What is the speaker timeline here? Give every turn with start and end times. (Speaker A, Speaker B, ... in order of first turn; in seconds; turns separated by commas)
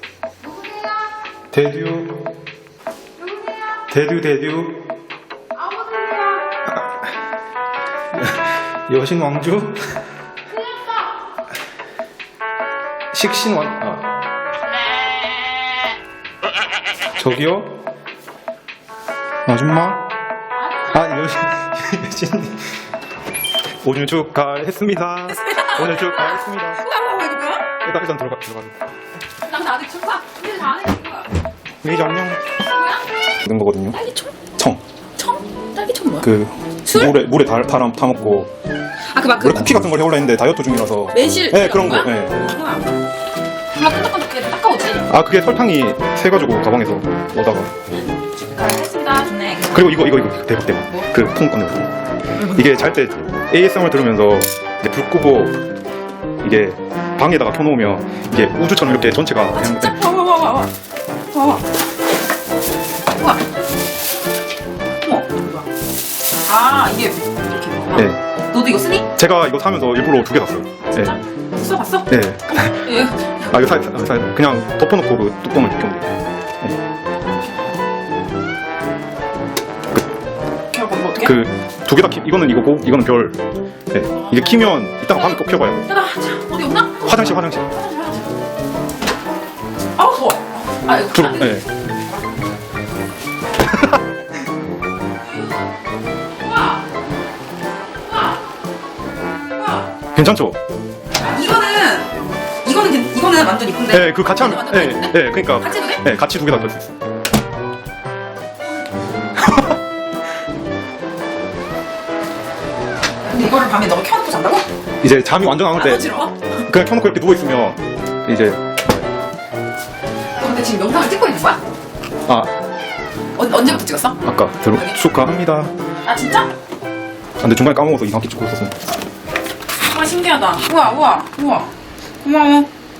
Speaker A: 1.5-2.3, Speaker A: 3.9-4.8, Speaker A: 8.1-9.8, Speaker A: 13.1-14.1, Speaker A: 17.1-17.8, Speaker A: 19.4-20.1, Speaker A: 20.8-22.7, Speaker A: 23.8-26.9, Speaker B: 25.4-27.7, Speaker A: 27.8-28.8, Speaker B: 29.4-31.3, Speaker A: 31.8-32.4, Speaker B: 32.6-33.0, Speaker A: 33.4-34.0, Speaker B: 33.9-34.3, Speaker B: 35.2-36.3, Speaker A: 36.2-38.5, Speaker B: 36.8-37.1, Speaker B: 39.1-39.8, Speaker A: 39.4-42.4, Speaker B: 41.1-42.9, Speaker B: 43.7-45.1, Speaker A: 45.1-47.7, Speaker B: 48.5-49.9, Speaker A: 49.7-51.9, Speaker B: 52.4-52.7, Speaker A: 52.5-55.6, Speaker A: 56.4-60.0, Speaker B: 59.5-60.7, Speaker B: 61.3-61.6, Speaker B: 63.2-63.4, Speaker B: 65.0-65.7, Speaker B: 66.4-69.1, Speaker A: 67.9-68.2, Speaker A: 69.2-71.2, Speaker B: 70.8-73.4, Speaker A: 72.1-72.9, Speaker A: 73.5-76.8, Speaker B: 80.7-81.4, Speaker A: 81.2-83.4, Speaker A: 83.9-85.8, Speaker B: 84.2-84.4, Speaker B: 85.1-88.3, Speaker A: 87.0-87.7, Speaker B: 90.0-91.6, Speaker A: 91.1-91.7, Speaker B: 96.4-96.8, Speaker B: 99.5-99.8, Speaker A: 100.1-100.6, Speaker B: 101.2-102.1, Speaker B: 102.6-106.0, Speaker A: 103.9-106.9, Speaker A: 109.4-109.7, Speaker B: 113.2-114.7, Speaker A: 115.0-116.1, Speaker B: 115.7-116.5, Speaker A: 116.7-118.6, Speaker B: 120.4-121.6, Speaker B: 123.3-124.2, Speaker A: 124.2-125.7, Speaker B: 126.0-126.5, Speaker A: 127.4-128.9, Speaker B: 129.8-131.7, Speaker B: 132.2-132.7